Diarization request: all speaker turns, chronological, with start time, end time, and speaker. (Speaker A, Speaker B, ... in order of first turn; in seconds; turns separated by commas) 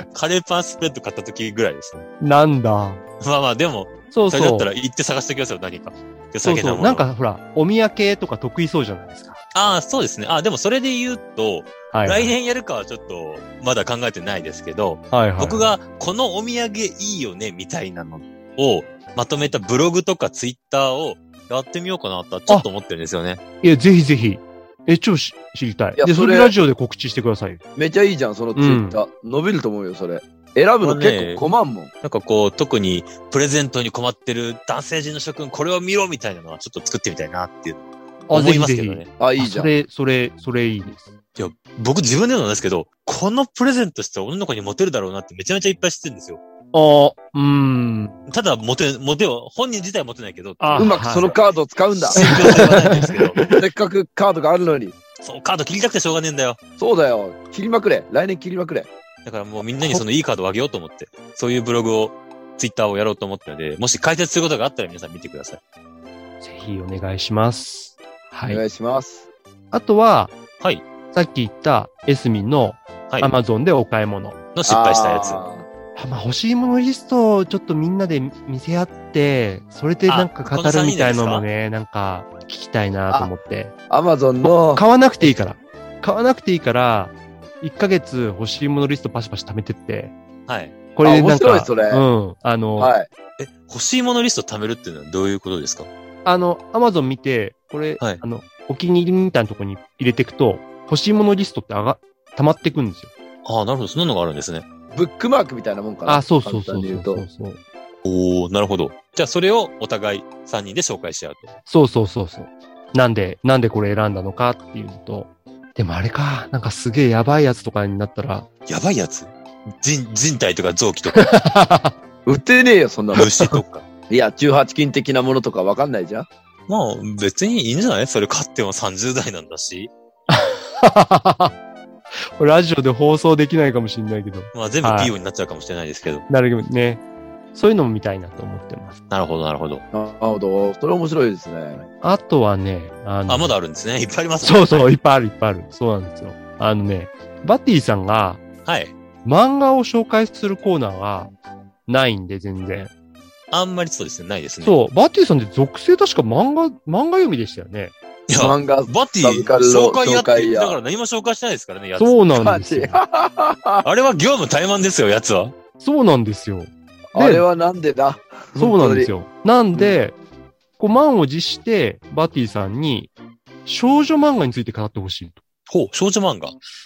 Speaker A: 0.1-2.1, Speaker B: 2.2-3.0, Speaker A: 3.2-7.0, Speaker B: 4.1-4.7, Speaker B: 6.4-9.4, Speaker A: 9.5-23.4, Speaker B: 11.9-12.3, Speaker B: 15.1-15.7, Speaker B: 23.6-27.6, Speaker C: 26.0-26.5, Speaker C: 27.8-31.9, Speaker B: 28.5-29.0, Speaker A: 30.8-31.4, Speaker A: 32.0-39.1, Speaker B: 38.3-41.1, Speaker C: 39.2-39.7, Speaker A: 41.4-46.4, Speaker B: 46.7-48.2, Speaker A: 48.3-51.3, Speaker B: 50.6-51.4, Speaker C: 50.8-52.7, Speaker A: 52.0-53.5, Speaker B: 52.1-53.6, Speaker C: 53.5-55.0, Speaker A: 55.2-56.6, Speaker C: 56.8-58.9, Speaker A: 59.2-65.6, Speaker B: 66.4-68.6, Speaker C: 68.5-69.2, Speaker B: 69.7-70.3, Speaker B: 71.1-74.4, Speaker A: 74.5-75.4, Speaker C: 74.7-75.7, Speaker B: 75.9-83.7, Speaker A: 80.1-81.5, Speaker C: 83.9-84.8, Speaker B: 84.4-90.1, Speaker A: 90.5-90.7, Speaker B: 90.9-92.9, Speaker C: 91.0-92.0, Speaker C: 92.8-93.1, Speaker A: 93.4-95.9, Speaker B: 96.2-103.1, Speaker A: 103.4-104.6, Speaker C: 104.9-107.2, Speaker B: 106.0-107.6, Speaker A: 108.0-111.5, Speaker B: 111.7-118.5, Speaker A: 118.7-121.3, Speaker B: 121.1-121.9, Speaker C: 122.2-123.3, Speaker A: 123.1-123.8, Speaker C: 124.1-126.3, Speaker A: 126.7-129.9, Speaker B: 130.3-131.5, Speaker B: 132.2-135.1, Speaker A: 134.5-136.2, Speaker B: 136.3-137.0, Speaker B: 137.5-139.0, Speaker A: 139.1-139.8, Speaker C: 139.9-141.9, Speaker B: 142.0-143.5, Speaker A: 143.3-144.8, Speaker B: 144.4-148.4, Speaker A: 148.6-148.9, Speaker B: 149.2-151.3, Speaker B: 151.9-152.9, Speaker A: 153.5-154.8, Speaker B: 154.6-157.9, Speaker A: 158.3-162.2, Speaker C: 158.3-160.8, Speaker B: 162.0-163.0, Speaker C: 162.3-163.8, Speaker A: 163.8-165.5, Speaker B: 165.8-167.4, Speaker C: 167.1-169.1, Speaker B: 168.6-170.2, Speaker B: 170.8-173.1, Speaker B: 173.7-175.4, Speaker A: 175.7-176.6